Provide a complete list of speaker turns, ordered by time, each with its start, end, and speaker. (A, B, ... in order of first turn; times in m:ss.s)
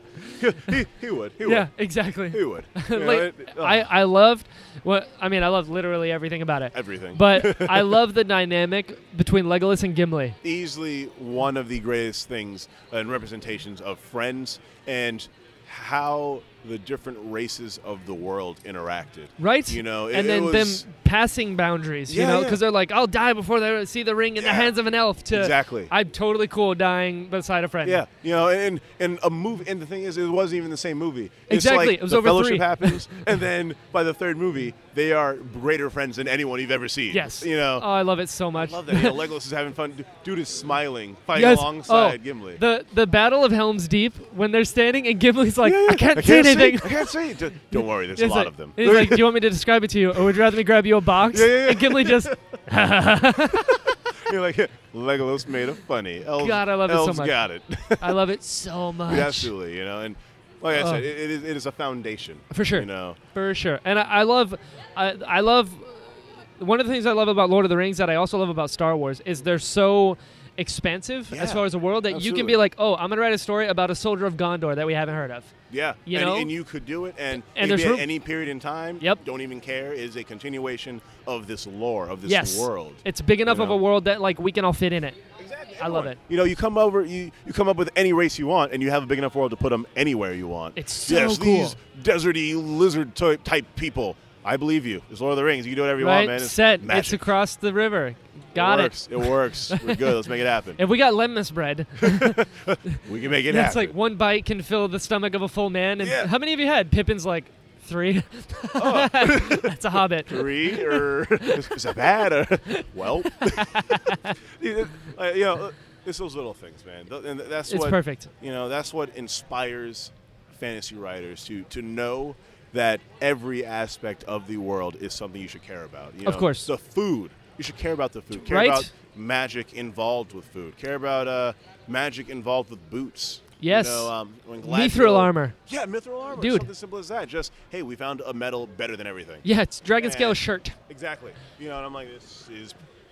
0:00.4-0:01.7 A
0:01.4-0:10.4 B
0:02.3-0:03.9 A
0:06.7-0:08.0 A
0:10.4-0:20.8 A
0:19.4-0:28.0 B
0:22.1-0:22.6 A
0:24.4-0:24.7 A
0:25.3-0:25.9 A
0:27.8-0:37.9 A
0:31.5-0:33.3 B
0:37.1-0:39.2 B
0:38.5-0:42.6 A
0:41.3-0:47.2 B
0:45.6-0:49.3 A
0:47.7-0:53.9 B
0:50.2-0:50.5 A
0:51.2-0:52.4 A
0:53.4-0:58.2 A
0:56.4-0:57.4 B
0:58.0-0:59.5 B
0:59.1-1:03.2 A
1:00.7-1:01.0 B
1:02.5-1:15.6 B
1:11.3-1:12.6 A
1:15.7-1:23.8 A
1:16.1-1:16.5 B
1:17.4-1:18.1 B
1:22.3-1:25.2 B
1:25.4-1:37.3 A
1:25.8-1:26.2 B
1:30.8-1:31.8 B
1:36.0-1:40.2 B
1:38.5-1:40.8 A
1:40.8-1:52.1 B
1:42.0-1:44.0 A
1:46.0-1:46.3 A
1:48.8-2:19.4 A
1:52.7-1:54.4 B
1:57.7-1:58.3 B
2:06.2-2:06.7 B
2:08.4-2:08.9 B
2:13.6-2:15.6 B
2:16.3-2:16.7 B
2:19.4-2:20.8 B
2:20.0-2:22.8 A